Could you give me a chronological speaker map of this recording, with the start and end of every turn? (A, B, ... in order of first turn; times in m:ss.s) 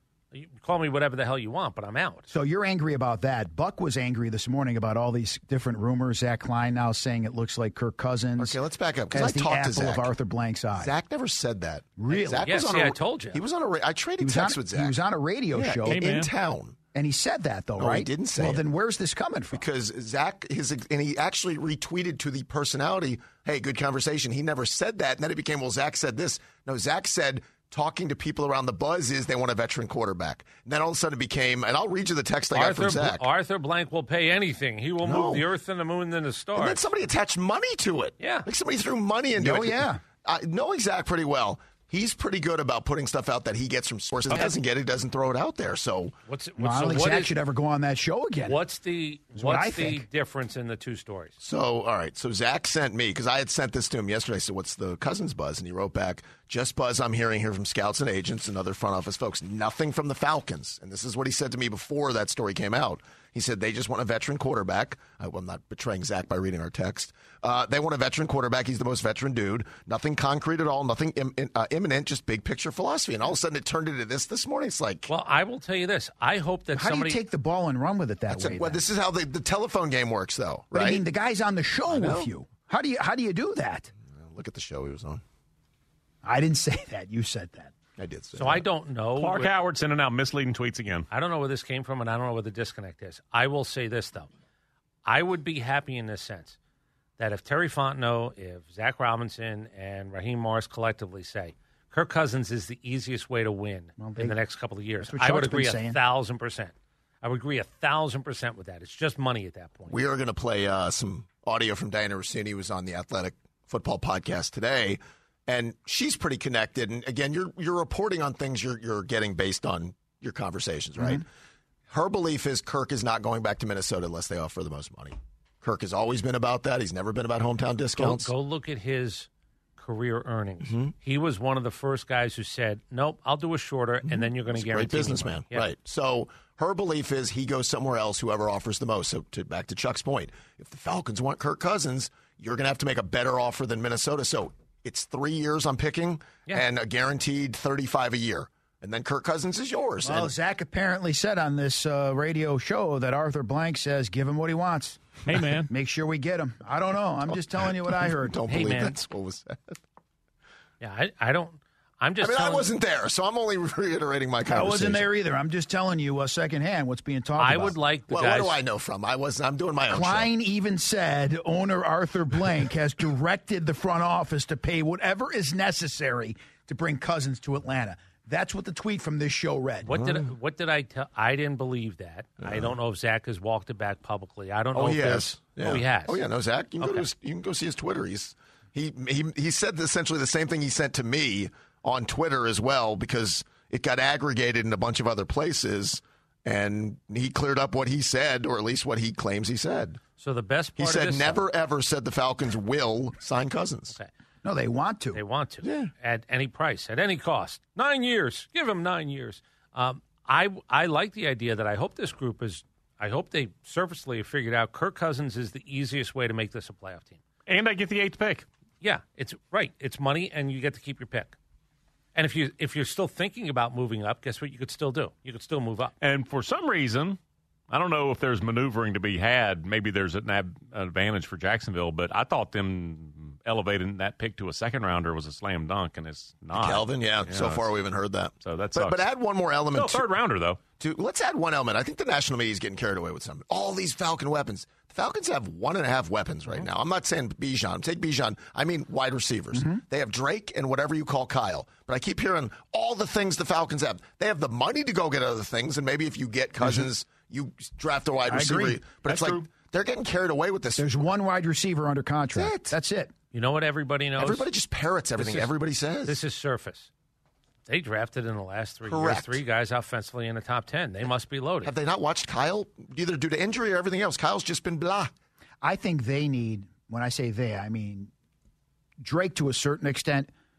0:00.3-0:02.3 A
0:02.3-0:08.6 B
0:08.4-0:10.1 C
0:09.1-0:10.9 B
0:10.8-0:15.0 C
0:12.0-0:12.6 B
0:12.4-0:13.4 A
0:14.2-0:16.0 B
0:15.5-0:16.8 C
0:15.8-0:16.3 D
0:16.9-0:19.7 B
0:17.8-0:18.6 C
0:19.5-0:33.3 C
0:32.5-0:36.8 A
0:35.0-0:35.5 C
0:36.6-0:46.2 C
0:38.2-0:38.5 A
0:39.4-0:40.0 B
0:46.3-0:47.3 A
0:46.6-0:48.6 B
0:48.5-0:51.4 A
0:49.4-0:50.1 B
0:51.4-1:15.1 C
1:15.1-1:17.2 A
1:16.7-1:18.8 B
1:18.3-1:21.0 C
1:20.7-1:23.9 B
1:21.9-1:22.3 C
1:24.1-1:25.2 C
1:26.2-1:27.7 B
1:28.0-1:28.6 C
1:28.3-1:29.5 A
1:29.2-1:31.1 D
1:31.1-1:34.3 A
1:35.0-1:36.6 A
1:37.2-1:50.0 A
1:44.0-1:44.4 B
1:45.0-1:46.0 B
1:49.9-2:01.3 C
2:01.0-2:01.2 B
2:01.9-2:08.3 C
2:08.0-2:15.7 A
2:10.6-2:10.9 C
2:14.0-2:30.3 C
2:30.0-2:38.4 B
2:35.3-2:35.7 D
2:37.7-2:39.8 C
2:38.5-2:39.0 A
2:40.8-2:42.7 A
2:42.2-2:45.0 C
2:44.5-2:47.8 B
2:47.4-2:48.6 A
2:48.1-2:50.3 C
2:49.9-3:00.0 B
2:59.8-3:06.2 A
2:59.9-3:00.3 C
3:02.4-3:02.7 C
3:04.8-3:20.0 C
3:06.8-3:07.1 A
3:20.2-3:21.4 A
3:20.8-3:24.0 C
3:24.4-3:25.2 B
3:25.1-3:37.2 A
3:25.6-3:25.9 C
3:37.5-3:38.4 D
3:38.8-3:41.4 A
3:42.2-3:45.9 A
3:46.0-3:47.2 D
3:47.7-3:57.6 D
3:56.5-4:00.1 C
3:58.4-3:59.0 D
3:59.7-4:00.6 D
4:00.8-4:20.9 C
4:09.5-4:09.8 B
4:16.6-4:16.9 B
4:18.3-4:18.8 B
4:19.1-4:19.4 D
4:20.8-4:23.1 B
4:22.3-4:22.8 C
4:23.3-4:24.5 A
4:24.2-4:26.2 C
4:25.2-4:25.5 A
4:26.0-4:26.9 A
4:27.7-4:31.7 A
4:28.8-4:29.4 C
4:31.6-4:35.1 C
4:35.6-4:38.1 B
4:39.0-4:40.3 B